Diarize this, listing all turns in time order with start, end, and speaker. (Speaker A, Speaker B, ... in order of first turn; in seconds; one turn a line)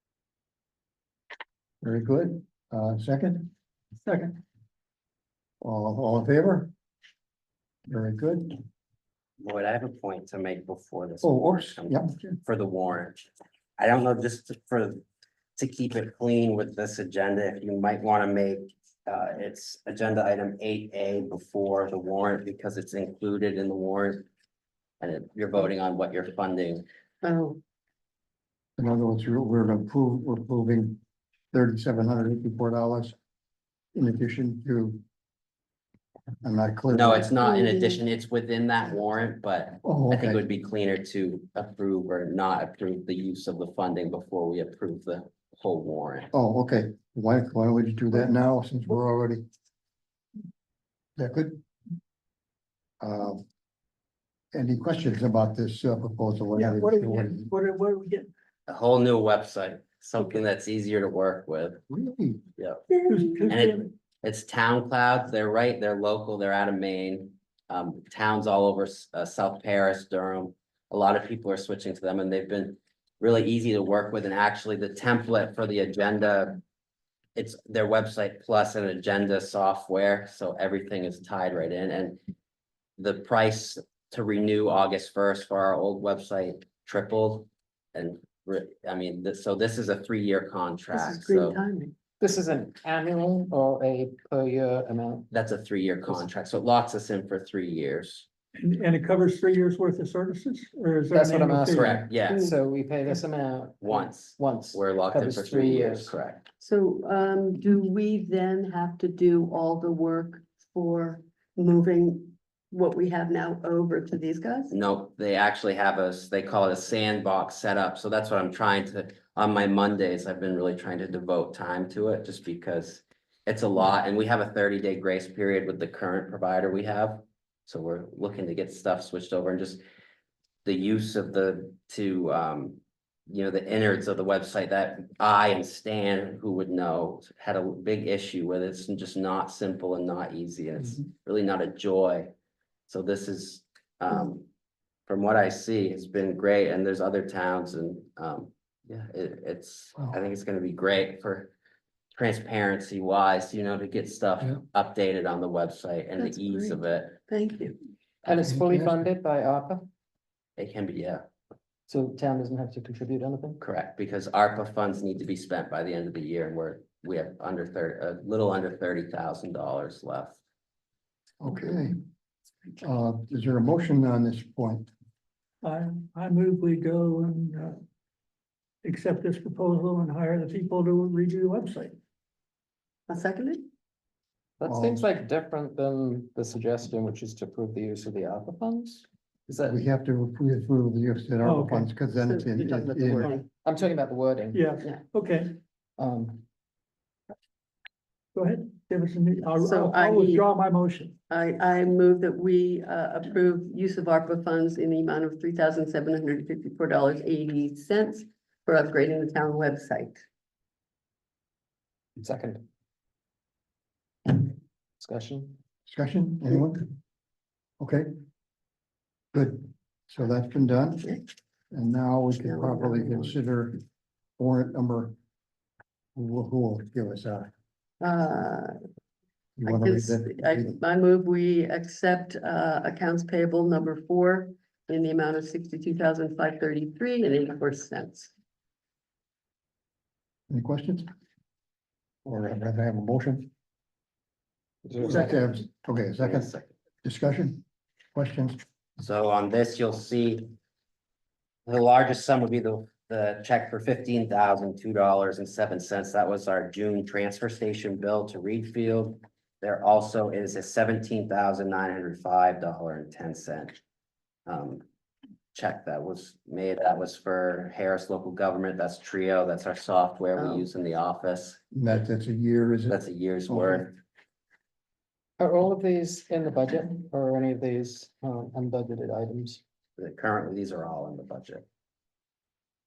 Speaker A: 1.8-3.5
Speaker B: 4.1-4.4
Speaker A: 5.6-6.7
Speaker A: 7.9-8.6
Speaker C: 9.4-15.0
Speaker A: 11.2-12.2
Speaker C: 15.6-24.3
Speaker C: 25.0-26.9
Speaker D: 27.2-27.6
Speaker A: 28.8-31.0
Speaker A: 31.5-33.1
Speaker A: 34.0-35.0
Speaker A: 36.4-37.2
Speaker C: 36.9-46.3
Speaker D: 37.2-38.0
Speaker A: 39.8-40.4
Speaker A: 46.3-49.4
Speaker A: 51.2-51.6
Speaker A: 53.0-53.4
Speaker A: 54.5-57.5
Speaker B: 56.6-58.3
Speaker C: 58.7-61.8
Speaker A: 61.9-62.4
Speaker C: 62.6-62.9
Speaker D: 62.9-63.5
Speaker B: 63.0-63.9
Speaker C: 63.5-76.6
Speaker C: 77.4-82.2
Speaker C: 83.0-91.6
Speaker D: 90.9-91.9
Speaker E: 92.2-95.3
Speaker C: 95.3-98.3
Speaker B: 98.6-101.9
Speaker E: 101.1-106.1
Speaker C: 101.7-102.4
Speaker D: 102.3-102.6
Speaker C: 103.8-106.5
Speaker D: 106.6-114.8
Speaker C: 114.7-129.8
Speaker C: 130.7-142.3
Speaker C: 142.9-144.4
Speaker C: 145.1-151.5
Speaker C: 152.2-157.2
Speaker D: 156.2-157.8
Speaker E: 158.2-159.9
Speaker A: 158.5-159.0
Speaker C: 160.6-161.2
Speaker E: 161.9-163.6
Speaker C: 163.6-170.4
Speaker A: 171.4-172.0
Speaker A: 172.8-174.9
Speaker B: 175.6-177.8
Speaker B: 178.8-181.9
Speaker D: 183.1-183.7
Speaker E: 184.6-189.8
Speaker A: 184.7-185.1
Speaker A: 189.7-193.3
Speaker B: 191.4-191.9
Speaker D: 192.2-193.4
Speaker E: 192.7-194.7
Speaker B: 194.5-195.6
Speaker E: 196.0-196.4
Speaker B: 198.3-201.1
Speaker D: 199.6-200.5
Speaker D: 201.3-210.2
Speaker E: 212.2-212.6
Speaker E: 214.3-215.6
Speaker A: 215.9-216.9
Speaker A: 217.8-218.1
Speaker A: 219.3-221.1
Speaker A: 221.7-223.8
Speaker D: 222.4-223.4
Speaker A: 224.4-225.2
Speaker A: 226.2-227.5
Speaker D: 228.0-228.8
Speaker A: 229.6-230.7
Speaker D: 229.6-238.3
Speaker A: 240.5-241.1
Speaker A: 242.2-243.5
Speaker E: 244.8-245.4
Speaker A: 245.0-246.5
Speaker C: 246.2-246.7
Speaker A: 247.0-247.6
Speaker A: 248.1-248.6
Speaker C: 249.0-250.5
Speaker C: 251.7-263.8
Speaker C: 264.5-264.8
Speaker C: 265.5-271.6
Speaker D: 270.4-270.7
Speaker A: 271.7-273.9
Speaker C: 272.9-273.9
Speaker E: 275.4-279.6
Speaker C: 280.0-281.6